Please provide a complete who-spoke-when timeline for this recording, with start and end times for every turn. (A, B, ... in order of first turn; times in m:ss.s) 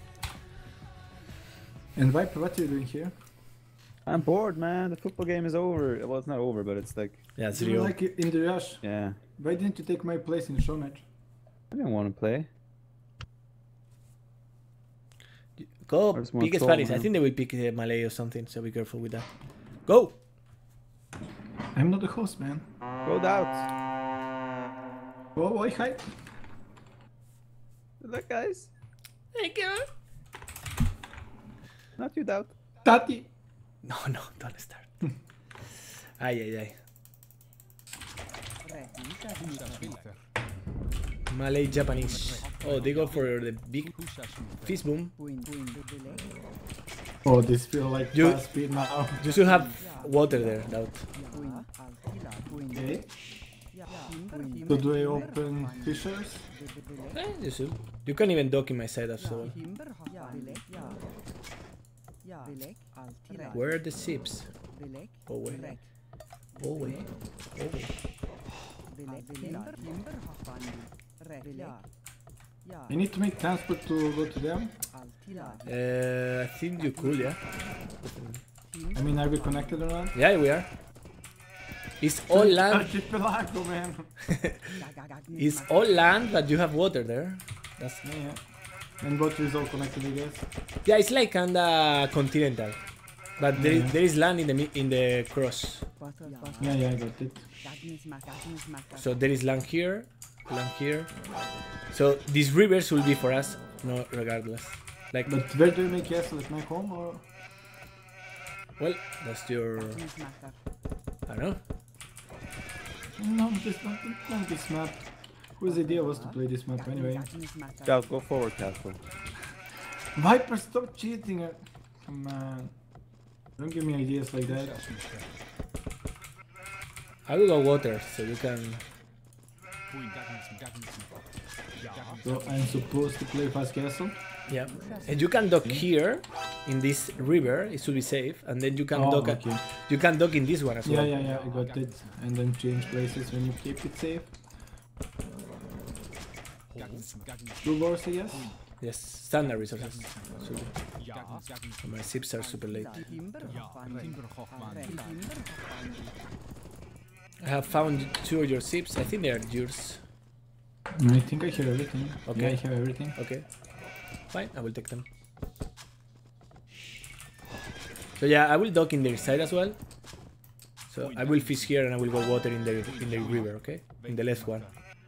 0:01.9-0:03.2 A
0:04.0-0:07.3 B
0:07.4-0:07.9 C
0:07.5-0:11.0 A
0:08.8-0:09.2 B
0:11.7-0:12.5 B
0:15.6-0:20.2 C
0:16.1-0:17.1 B
0:21.7-0:22.6 A
0:23.0-0:23.7 B
0:25.4-0:26.2 A
0:28.0-0:28.7 B
0:29.3-0:29.9 C
0:32.0-0:32.5 B
0:32.8-0:33.3 A
0:33.8-0:34.9 C
0:36.0-0:36.8 C
0:41.3-0:45.1 C
0:47.2-0:49.2 A
0:48.1-0:51.1 C
0:52.7-0:53.1 A
0:54.7-0:56.5 A
0:57.1-0:59.6 C
1:03.5-1:04.5 C
1:05.2-1:05.9 C
1:06.5-1:07.9 C
1:12.9-1:14.8 A
1:15.6-1:18.4 C
1:18.9-1:20.1 A
1:20.1-1:20.7 C
1:22.0-1:22.9 C
1:22.3-1:24.1 A
1:24.3-1:28.0 C
1:28.0-1:28.4 A
1:29.0-1:30.5 A
1:30.8-1:32.8 C
1:33.4-1:35.8 C
1:33.6-1:34.0 A
1:36.6-1:37.5 A
1:39.0-1:41.2 C
1:41.9-1:45.3 C
1:45.2-1:47.2 A
1:48.8-1:50.1 C
1:51.3-1:51.6 C
1:53.2-1:57.3 A
1:57.8-1:59.0 B
2:00.1-2:02.7 A
2:03.5-2:04.9 A
2:07.2-2:08.8 C
2:12.2-2:14.2 A
2:14.5-2:21.1 C
2:18.9-2:19.6 A
2:20.8-2:24.4 A
2:27.6-2:28.5 A
2:28.8-2:31.0 C
2:31.8-2:33.1 C
2:37.4-2:40.0 C
2:40.9-2:43.2 A
2:42.2-2:43.6 C
2:44.2-2:45.0 C
2:48.2-2:49.8 C
2:50.9-2:54.7 C